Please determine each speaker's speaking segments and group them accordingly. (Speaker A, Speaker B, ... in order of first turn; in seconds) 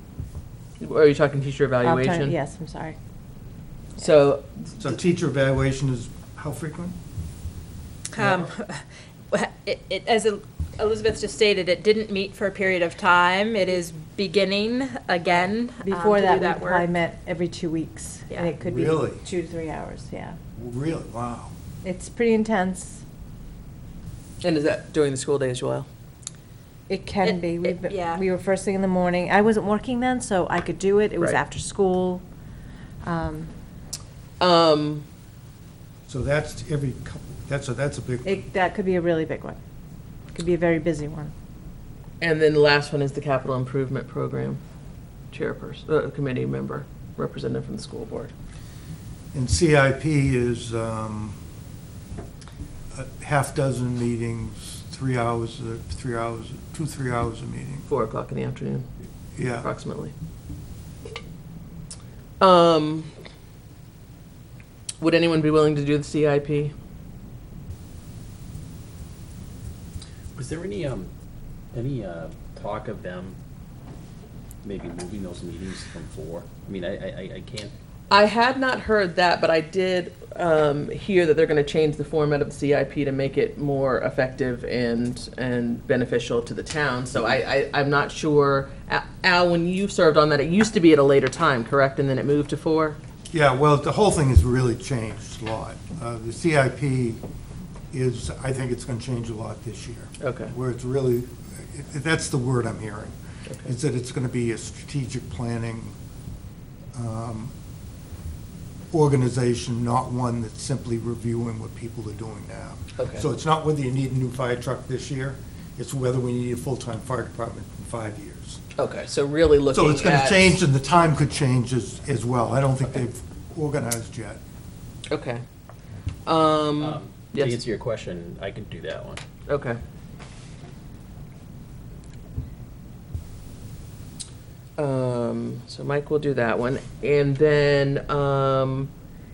Speaker A: 0.8-2.3, 4.0-4.7, 24.4-25.9, 34.4-35.0, 42.2-44.6, 45.3-48.3, 57.9-58.9, 59.6-60.1, 62.4-63.1, 65.0-66.7, 78.1-93.0, 100.2-100.5, 113.0-113.2, 118.8-120.6, 125.1-125.4, 126.2-127.6, 129.5-129.8, 134.8-138.9
Speaker B: 1.8-3.0, 15.8-20.4, 21.8-23.0, 26.9-32.2, 33.0-33.5, 38.2-39.6, 40.3-41.3
Speaker C: 4.8-7.0, 8.2-8.4, 18.6-19.2, 20.6-21.5, 36.1-38.4, 49.3-51.4, 52.9-57.9, 59.4-59.7, 93.3-97.2, 97.9-106.0, 106.9-107.5, 108.9-118.6, 119.7-124.4
Speaker D: 8.1-16.9, 27.2-28.2
Speaker E: 70.3-71.1, 71.7-73.4, 74.6-78.2, 126.8-129.2